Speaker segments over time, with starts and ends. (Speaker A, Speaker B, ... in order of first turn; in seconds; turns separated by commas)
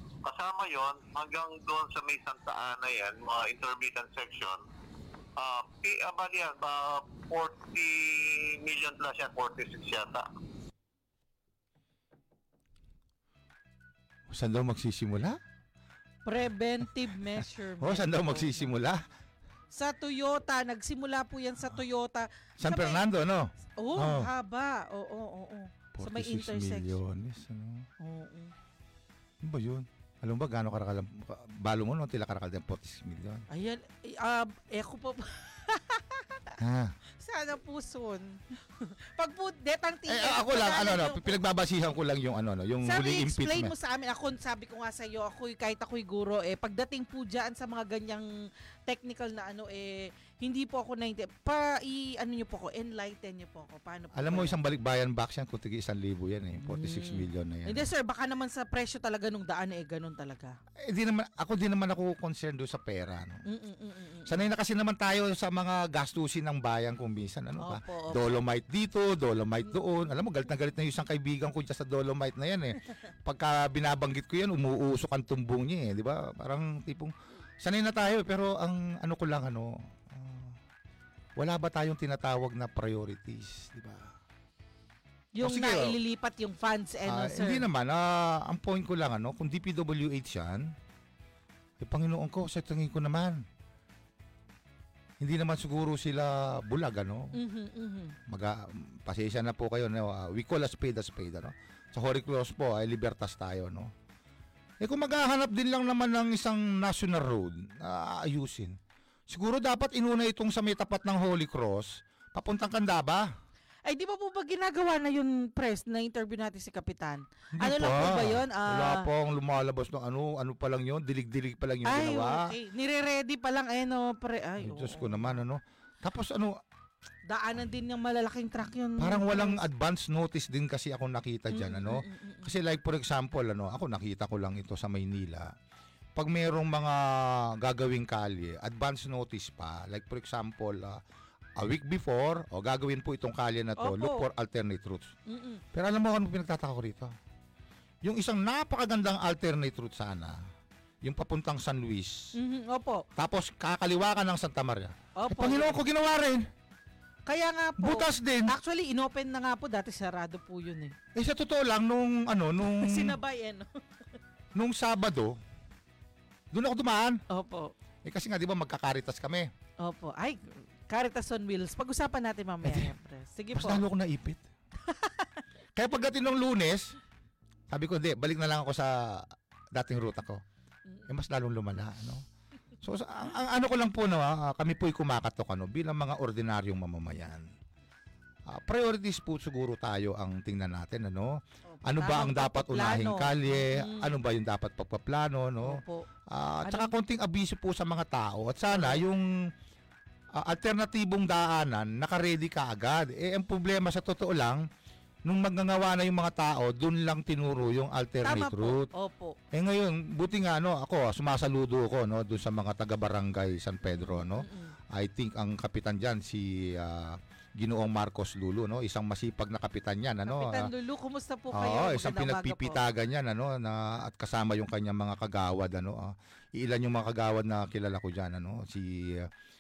Speaker A: 0.2-4.6, Speaker A: 5.4-10.3, Speaker B: 14.3-15.4, Speaker C: 16.2-18.7, Speaker B: 17.8-19.1, Speaker C: 19.7-23.0, Speaker B: 22.6-24.3, Speaker C: 23.8-27.0, Speaker B: 25.9-27.9, Speaker C: 28.0-28.5, Speaker B: 29.4-33.5, Speaker C: 33.5-36.6, Speaker B: 36.6-36.9, Speaker C: 37.2-41.4, Speaker B: 40.1-43.7, Speaker C: 42.8-48.3, Speaker C: 48.9-54.6, Speaker B: 54.1-57.9, Speaker C: 56.6-60.6, Speaker B: 60.9-63.5, Speaker C: 63.5-64.4, Speaker B: 64.3-80.6, Speaker C: 67.6-68.4, Speaker B: 81.4-84.1, Speaker C: 85.4-87.7, Speaker B: 85.4-86.0, Speaker B: 87.1-90.7, Speaker B: 91.8-93.5, Speaker B: 95.2-97.4, Speaker C: 97.3-98.2, Speaker B: 98.3-103.9, Speaker B: 104.8-108.8, Speaker B: 109.3-113.3, Speaker C: 113.9-119.1, Speaker B: 117.6-122.5, Speaker C: 121.8-125.4, Speaker B: 124.6-126.6, Speaker C: 127.3-129.6, Speaker B: 129.0-135.5, Speaker C: 131.5-132.5, Speaker B: 136.2-141.0, Speaker B: 141.6-145.1, Speaker C: 143.8-144.3, Speaker C: 145.3-145.6, Speaker B: 145.7-147.1, Speaker B: 148.0-150.4, Speaker B: 151.0-152.3, Speaker C: 152.3-153.1, Speaker B: 153.2-156.5, Speaker C: 155.2-155.8, Speaker C: 157.3-160.9, Speaker B: 157.8-158.6, Speaker B: 161.2-163.2, Speaker C: 162.6-163.7, Speaker B: 164.6-165.4, Speaker B: 166.5-167.2, Speaker C: 167.3-167.7, Speaker B: 168.1-169.5, Speaker C: 169.8-173.8, Speaker B: 172.6-172.9, Speaker B: 173.6-174.4, Speaker C: 174.9-175.3, Speaker B: 175.8-176.9, Speaker B: 177.7-180.4, Speaker B: 181.1-182.3, Speaker B: 182.8-187.5, Speaker B: 188.5-199.3, Speaker C: 191.7-194.2, Speaker C: 195.6-196.1, Speaker C: 196.7-196.9, Speaker C: 198.7-199.0, Speaker B: 200.3-204.7, Speaker B: 205.3-208.9, Speaker C: 208.2-209.4, Speaker B: 209.5-220.7, Speaker C: 213.9-214.8, Speaker C: 220.2-222.8, Speaker B: 221.5-229.3